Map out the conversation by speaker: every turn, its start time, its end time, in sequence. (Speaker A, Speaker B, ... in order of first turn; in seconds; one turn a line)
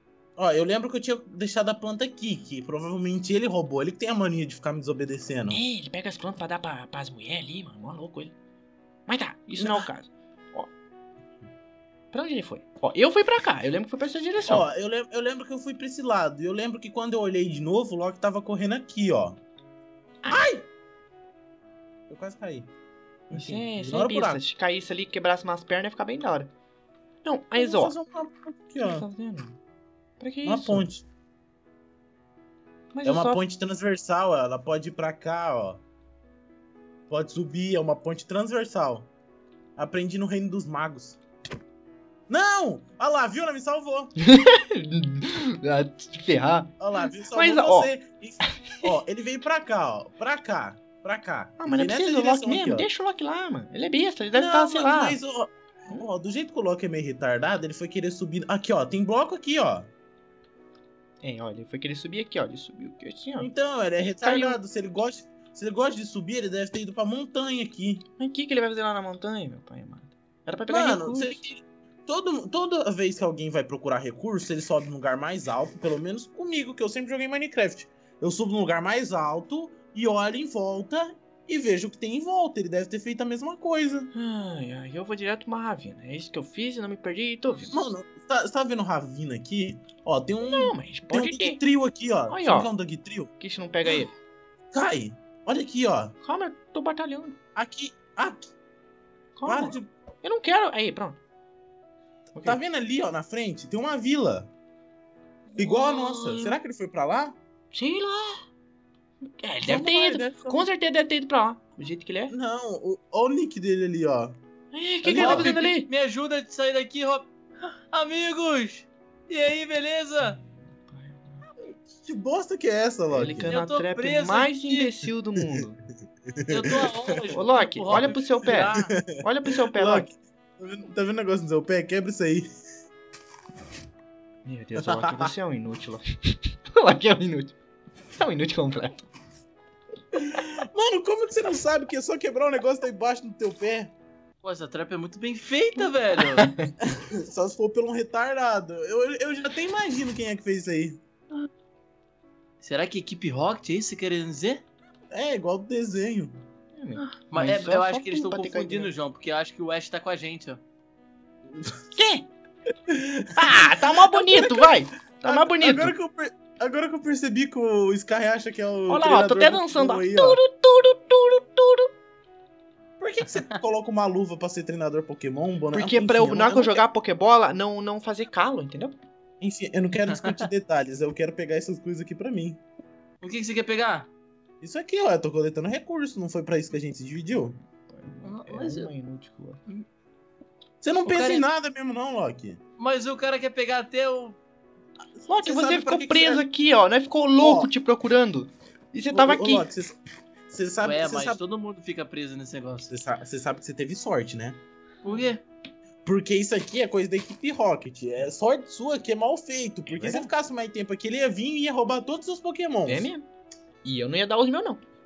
Speaker A: 0.4-5.6
Speaker B: 5.5-8.3
Speaker B: 9.1-10.7
Speaker A: 9.6-9.9
Speaker B: 12.1-14.7
Speaker A: 14.4-19.4
Speaker A: 20.3-20.7
Speaker A: 22.1-22.7
Speaker A: 23.3-24.4
Speaker B: 23.3-26.5
Speaker B: 27.2-27.9
Speaker A: 27.6-29.1
Speaker B: 28.8-29.6
Speaker B: 30.2-30.9
Speaker A: 30.4-31.0
Speaker B: 32.9-33.4
Speaker A: 33.0-35.8
Speaker A: 37.1-39.1
Speaker A: 39.8-41.2
Speaker A: 42.3-44.1
Speaker B: 44.2-46.7
Speaker A: 46.8-52.9
Speaker B: 47.3-47.9
Speaker B: 51.6-55.2
Speaker A: 54.3-59.9
Speaker B: 61.2-63.5
Speaker A: 63.4-68.0
Speaker B: 64.2-64.6
Speaker B: 68.2-71.4
Speaker A: 70.7-84.1
Speaker B: 84.1-87.7
Speaker A: 87.7-93.3
Speaker B: 90.5-91.6
Speaker B: 92.3-92.7
Speaker B: 93.4-94.1
Speaker A: 94.7-96.1
Speaker B: 96.2-97.3
Speaker A: 97.5-98.5
Speaker B: 99.3-101.2
Speaker A: 99.5-99.9
Speaker B: 102.3-102.6
Speaker A: 102.4-104.5
Speaker B: 105.5-106.5
Speaker A: 105.5-107.4
Speaker B: 107.7-108.4
Speaker B: 109.2-112.3
Speaker A: 109.6-110.7
Speaker A: 112.3-114.3
Speaker B: 114.7-115.9
Speaker A: 115.0-115.6
Speaker C: 115.2-117.3
Speaker C: 117.9-120.4
Speaker B: 120.3-121.4
Speaker A: 121.6-123.5
Speaker B: 123.1-125.8
Speaker C: 123.2-124.9
Speaker A: 126.3-126.9
Speaker C: 126.5-128.9
Speaker B: 127.3-130.1
Speaker A: 128.6-132.5
Speaker B: 134.4-137.5
Speaker A: 134.8-135.3
Speaker B: 138.2-139.0
Speaker A: 140.1-143.9
Speaker C: 144.4-146.5
Speaker B: 146.4-146.7
Speaker A: 146.8-151.0
Speaker C: 152.6-154.6
Speaker A: 155.1-156.3
Speaker B: 156.8-158.9
Speaker C: 157.3-160.6
Speaker A: 161.5-162.0
Speaker B: 161.9-162.3
Speaker A: 162.9-170.4
Speaker B: 163.3-165.9
Speaker B: 168.9-171.9
Speaker A: 173.0-176.8
Speaker B: 175.7-178.9
Speaker A: 179.4-182.6
Speaker C: 183.2-184.1
Speaker A: 184.6-187.6
Speaker B: 187.9-189.6
Speaker C: 188.2-188.9
Speaker A: 190.8-192.6
Speaker C: 191.0-191.4
Speaker C: 192.8-194.4
Speaker A: 195.2-196.4
Speaker B: 195.3-199.7
Speaker A: 197.4-197.7
Speaker A: 199.1-199.9
Speaker A: 200.5-201.4
Speaker C: 200.8-202.9
Speaker A: 202.9-204.6
Speaker C: 205.0-205.4
Speaker A: 206.0-213.1
Speaker B: 209.9-210.3
Speaker B: 212.8-213.2
Speaker B: 213.8-214.8